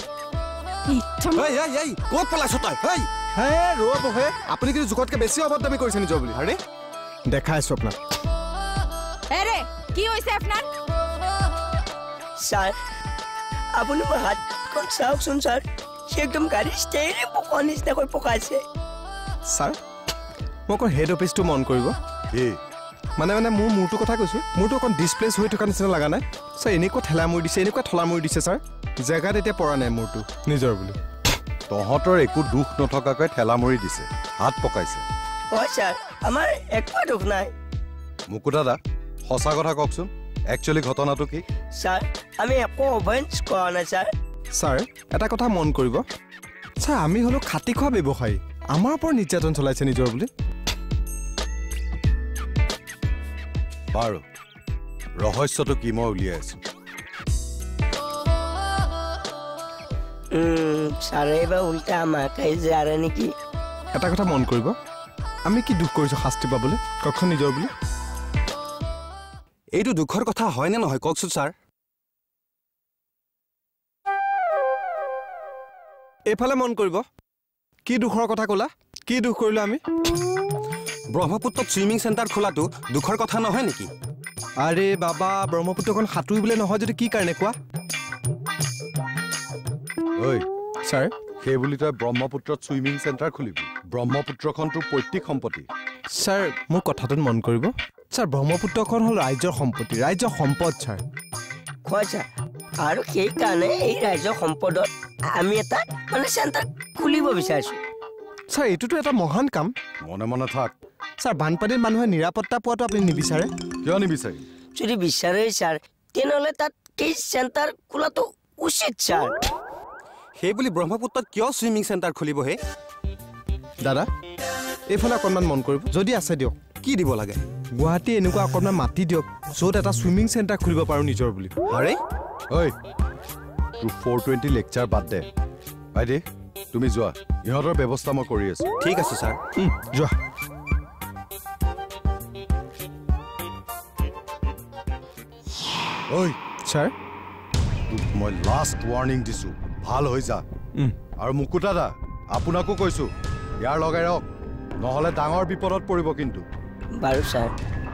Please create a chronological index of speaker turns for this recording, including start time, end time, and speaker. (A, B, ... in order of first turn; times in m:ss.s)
0:00.9-0:01.4 A
0:01.3-0:03.1 B
0:03.3-0:06.6 C
0:07.3-0:08.0 C
0:09.3-0:10.7 A
0:12.4-0:12.8 D
0:13.8-0:18.6 D
0:19.5-0:19.8 C
0:20.7-0:22.0 C
0:23.2-0:31.0 C
0:31.7-0:35.0 E
0:35.5-0:37.5 D
0:38.3-0:38.8 E
0:39.3-0:41.4 E
0:41.8-0:44.1 D
0:44.6-0:46.0 C
0:46.8-0:50.3 C
0:53.9-0:54.2 E
0:55.2-0:56.6 E
1:00.3-1:03.3 D
1:03.9-1:04.8 C
1:05.5-1:07.7 C
1:09.7-1:11.6 B
1:16.3-1:17.0 C
1:17.9-1:19.8 C
1:21.1-1:23.9 B
1:24.6-1:27.6 C
1:30.2-1:30.4 E
1:30.8-1:31.1 C
1:31.4-1:35.7 E
1:36.1-1:41.0 C
1:41.8-1:42.3 D
1:42.8-1:47.8 D
1:48.5-1:49.7 C
1:50.0-1:50.7 E
1:51.2-1:53.5 C
1:53.8-1:54.4 E
1:54.7-1:59.4 D
2:00.4-2:02.6 B
2:04.9-2:06.6 C
2:06.8-2:07.4 B
2:07.8-2:11.5 C
2:11.7-2:12.0 B
2:13.8-2:15.3 E
2:16.0-2:16.2 E
2:16.7-2:18.6 E
2:18.8-2:19.4 B
2:19.6-2:20.1 C
2:26.1-2:26.4 E
2:26.6-2:26.9 C
2:27.9-2:30.4 E
2:31.2-2:33.1 E
2:33.6-2:34.2 E
2:34.8-2:36.4 E
2:37.0-2:37.5 D